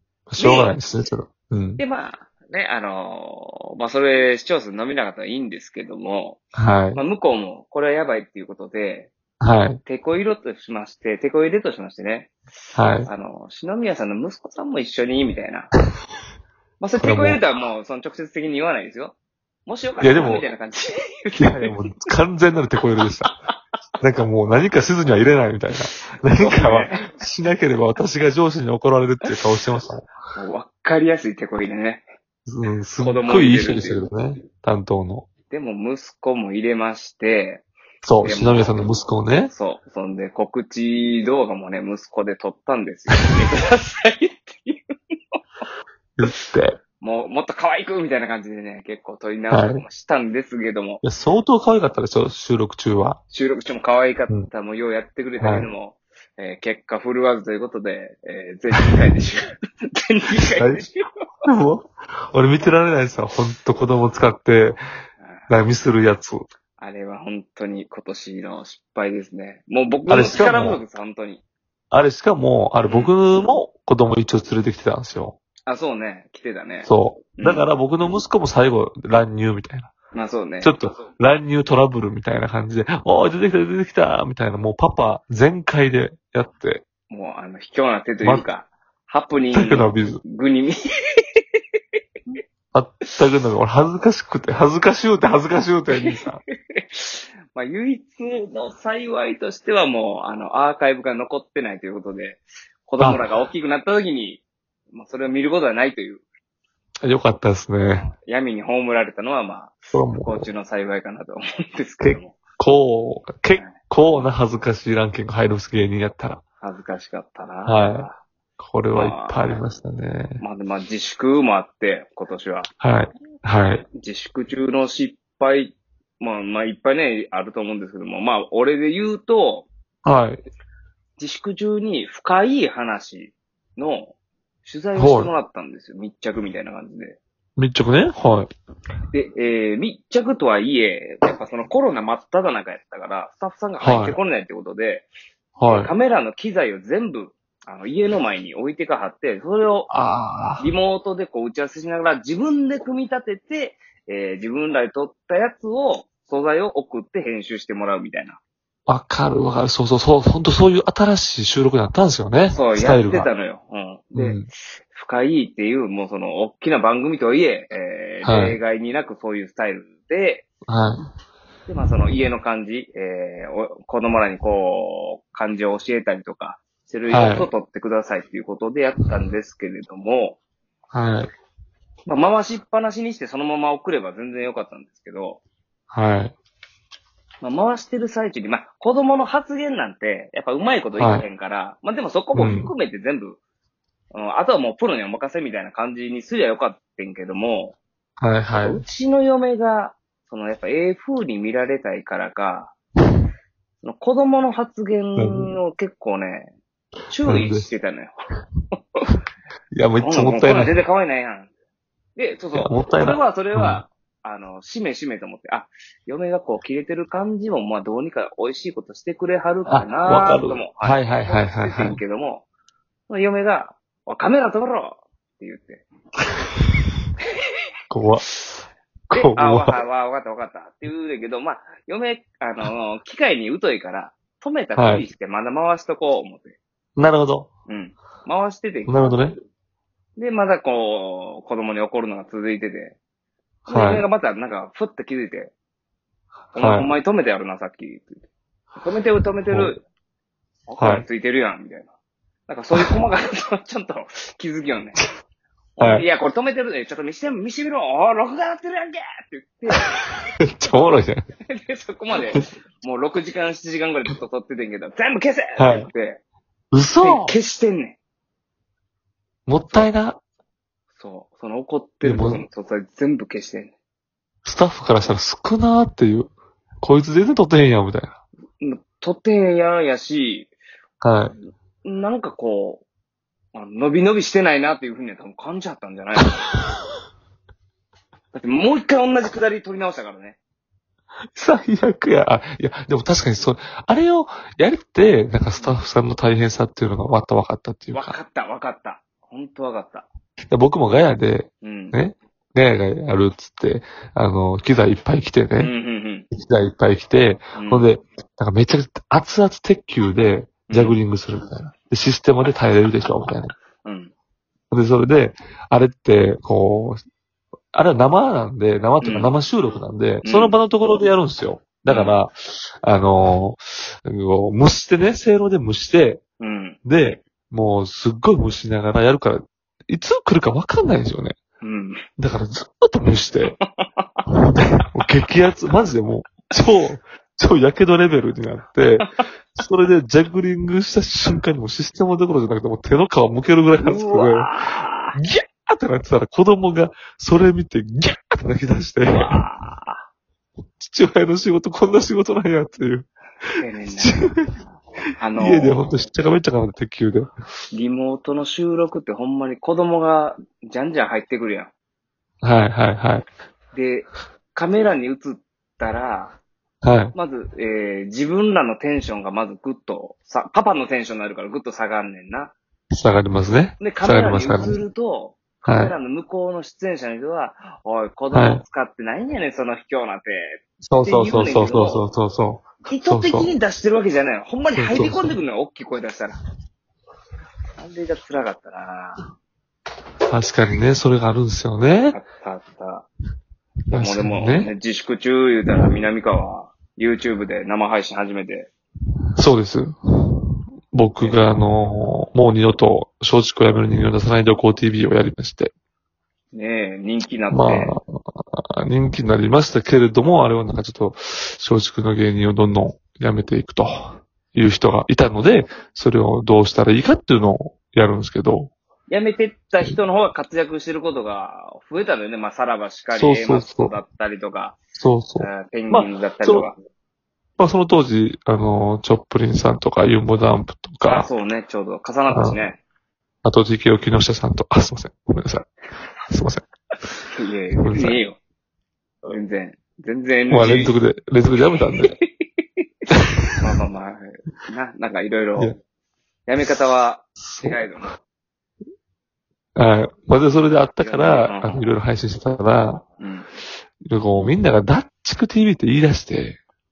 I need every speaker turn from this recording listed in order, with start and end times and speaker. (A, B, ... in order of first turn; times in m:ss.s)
0:00.3-0:01.8 A
0:00.4-0:00.8 B
0:01.8-0:06.4 B
0:06.6-0:07.0 A
0:07.0-0:09.1 B
0:09.4-0:09.8 A
0:09.8-0:12.3 B
0:12.8-0:13.1 A
0:13.0-0:15.7 B
0:16.8-0:21.7 B
0:17.0-0:17.4 A
0:20.0-0:20.4 A
0:21.4-0:23.3 A
0:24.0-0:30.1 A
0:26.4-0:27.1 B
0:30.4-0:32.0 B
0:32.5-0:35.3 A
0:33.0-0:34.0 B
0:35.5-0:37.6 B
0:38.0-0:39.5 A
0:38.2-0:38.8 B
0:39.5-0:44.8 B
0:46.2-0:46.8 A
0:47.0-0:51.0 B
0:49.5-0:49.8 A
0:51.0-0:53.2 A
0:53.3-1:01.0 B
0:55.4-0:55.7 A
1:00.6-1:00.8 A
1:01.5-1:04.8 A
1:05.5-1:06.4 A
1:06.8-1:11.4 B
1:10.1-1:10.8 A
1:11.9-1:15.4 A
1:12.8-1:13.2 B
1:15.7-1:17.7 B
1:16.8-1:19.9 A
1:20.1-1:20.8 B
1:20.6-1:26.8 A
1:27.1-1:31.4 B
1:29.5-1:30.2 A
1:32.7-1:36.4 A
1:36.0-1:36.2 B
1:36.7-1:46.2 B
1:43.0-1:43.3 A
1:47.0-1:48.1 A
1:47.9-1:52.4 B
1:49.9-1:50.5 A
1:52.0-1:56.4 A
1:53.6-1:54.3 B
1:56.6-1:58.2 B
1:57.6-2:00.4 A
1:58.9-1:59.6 B
2:00.4-2:02.7 B
2:02.8-2:03.8 A
2:03.9-2:09.7 B
2:10.0-2:10.4 A
2:11.2-2:14.1 B
2:14.6-2:17.2 B
2:15.0-2:15.3 A
2:17.6-2:18.5 A
2:19.1-2:25.1 B
2:23.8-2:24.2 A
2:25.6-2:25.9 A
2:25.6-2:29.9 B
2:29.9-2:30.7 A
2:30.6-2:38.4 B
2:38.9-2:43.3 A
2:42.5-2:44.4 B
2:44.2-2:44.5 A
2:44.9-2:50.5 B
2:48.2-2:48.6 A
2:50.7-2:51.0 A
2:51.7-3:00.4 B
2:57.1-2:57.5 A
3:00.9-3:01.3 A
3:02.1-3:05.4 B
3:05.9-3:06.3 A
3:07.4-3:13.4 B
3:11.0-3:11.3 A
3:12.3-3:12.7 A
3:14.1-3:17.8 B
3:18.2-3:18.8 A
3:18.6-3:22.8 B
3:23.8-3:26.5 B
3:25.2-3:25.6 A
3:27.1-3:28.1 B
3:27.3-3:27.7 A
3:29.7-3:30.8 A
3:30.0-3:31.5 B
3:32.2-3:42.5 B
3:32.6-3:33.8 A
3:39.7-3:42.0 A
3:43.1-3:45.9 B
3:47.9-3:49.7 A
3:49.1-3:56.6 B
3:54.8-3:55.1 A
3:57.0-3:57.5 A
3:57.7-3:59.2 B
3:58.9-3:59.4 A
4:00.2-4:03.0 B
4:03.7-4:04.0 A
4:03.7-4:05.5 B
4:06.5-4:08.2 B
4:06.6-4:06.9 A
4:08.8-4:09.8 B
4:09.5-4:09.8 A
4:10.7-4:11.9 B
4:10.8-4:11.1 A
4:12.5-4:15.0 B
4:15.8-4:19.9 B
4:15.8-4:16.0 A
4:19.8-4:21.2 A
4:21.5-4:26.2 B
4:25.6-4:25.9 A
4:26.7-4:27.3 A
4:27.0-4:28.0 B
4:29.5-4:30.2 A
4:31.0-4:33.7 B
4:32.0-4:32.4 A
4:34.4-4:38.2 A
4:38.6-4:40.5 B
4:41.0-4:41.4 A
4:41.8-4:42.8 B
4:43.5-4:46.3 B
4:46.2-4:46.6 A
4:48.3-4:50.4 B
4:51.4-4:58.2 A
4:57.9-5:00.1 B
5:00.5-5:05.7 A
5:01.6-5:02.0 B
5:05.6-5:06.3 B
5:06.3-5:13.5 A
5:07.6-5:07.9 B
5:10.7-5:11.0 B
5:13.8-5:14.1 B
5:14.7-5:17.0 A
5:17.7-5:26.2 A
5:19.0-5:19.4 B
5:20.2-5:20.6 B
5:21.9-5:22.2 B
5:26.4-5:26.9 B
5:26.8-5:31.4 A
5:31.6-5:32.0 B
5:32.2-5:33.6 A
5:33.6-5:34.2 B
5:34.3-5:44.5 A
5:43.8-5:45.2 B
5:45.1-5:49.4 A
5:49.1-5:50.0 B
5:50.8-5:53.1 A
5:53.6-5:54.3 B
5:54.0-5:54.5 A
5:55.2-5:56.0 B
5:55.4-5:57.3 A
5:57.7-6:01.7 B
6:02.4-6:03.2 A
6:03.7-6:06.4 B
6:06.8-6:07.1 A
6:07.1-6:12.5 B
6:12.9-6:14.8 A
6:13.8-6:22.0 B
6:15.7-6:16.0 A
6:18.3-6:18.6 A
6:20.9-6:23.5 A
6:22.9-6:26.4 B
6:24.8-6:25.4 A
6:27.8-6:29.2 B
6:30.3-6:32.2 A
6:32.1-6:33.1 B
6:33.9-6:34.7 A
6:34.0-6:38.7 B
6:39.4-6:45.7 A
6:46.5-6:48.0 B
6:47.5-6:58.7 A
6:59.1-7:04.8 B
7:03.1-7:04.0 A
7:05.0-7:06.7 A
7:05.4-7:06.8 B
7:07.6-7:11.3 A
7:11.0-7:12.8 B
7:12.3-7:12.6 A
7:13.4-7:15.7 A
7:16.3-7:16.6 A
7:17.3-7:18.4 B
7:17.8-7:18.2 A
7:19.3-7:21.0 B
7:20.5-7:22.1 A
7:21.8-7:22.6 B
7:23.1-7:23.6 A
7:23.6-7:25.8 B
7:26.5-7:28.2 B
7:27.4-7:27.8 A
7:29.8-7:33.0 A
7:31.0-7:31.8 B
7:33.2-7:33.5 B
7:34.0-7:36.6 A